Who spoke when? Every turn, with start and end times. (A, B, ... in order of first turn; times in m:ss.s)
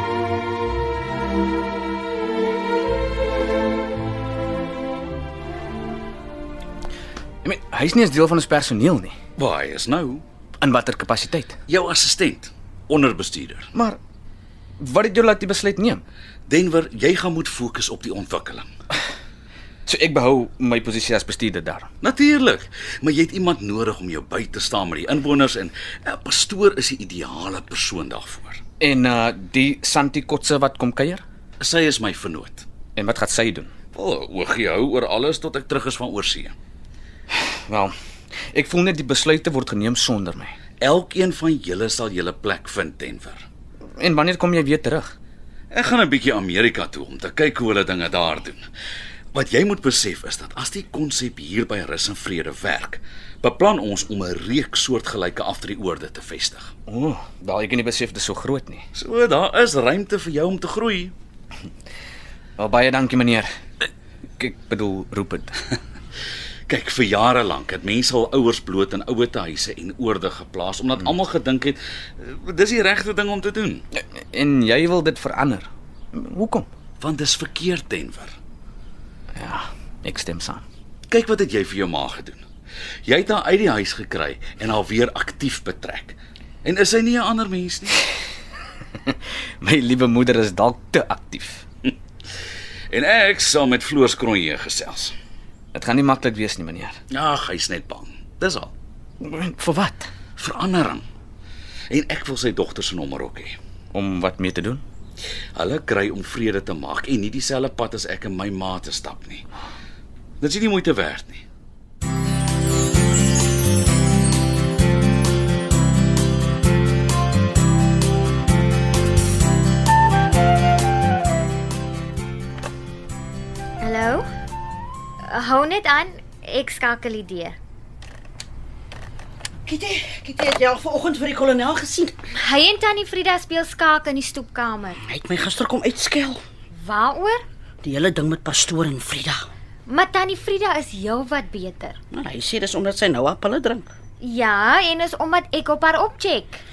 0:07.4-0:09.2 A
0:09.4-0:10.2 B
0:10.6-0:11.6 A
0:11.7-0:13.7 B
0:14.8-0:16.0 A
0:16.5-0:18.7 B
0:19.9-0:21.9 A
0:22.0-0:28.6 B
0:28.8-0:31.2 A
0:31.6-0:32.7 B
0:33.0-0:33.7 A
0:33.9-0:36.6 B
0:37.3-0:37.9 A
0:38.5-0:40.6 A
0:40.8-0:43.5 B
0:44.0-0:45.1 A
0:45.7-0:48.6 B
0:49.3-0:56.7 B
0:56.9-0:58.8 A
0:59.0-1:01.1 B
1:02.6-1:03.5 A
1:04.4-1:05.8 A
1:06.7-1:13.9 B
1:14.0-1:16.7 A
1:17.0-1:18.4 B
1:19.3-1:20.6 A
1:21.1-1:22.4 B
1:23.1-1:28.0 B
1:29.0-1:31.6 A
1:32.9-1:35.2 B
1:35.7-1:37.0 A
1:37.1-1:38.7 B
1:39.2-1:40.1 A
1:40.4-1:41.0 B
1:41.9-1:43.6 B
1:43.9-1:44.8 A
1:45.6-1:49.4 B
1:50.4-1:51.4 B
2:03.8-2:04.2 C
2:05.3-2:07.6 C
2:09.7-2:12.1 D
2:12.3-2:15.0 C
2:15.0-2:16.4 D
2:16.7-2:17.4 C
2:17.8-2:19.5 D
2:19.9-2:22.0 C
2:22.1-2:23.9 D
2:24.2-2:26.6 C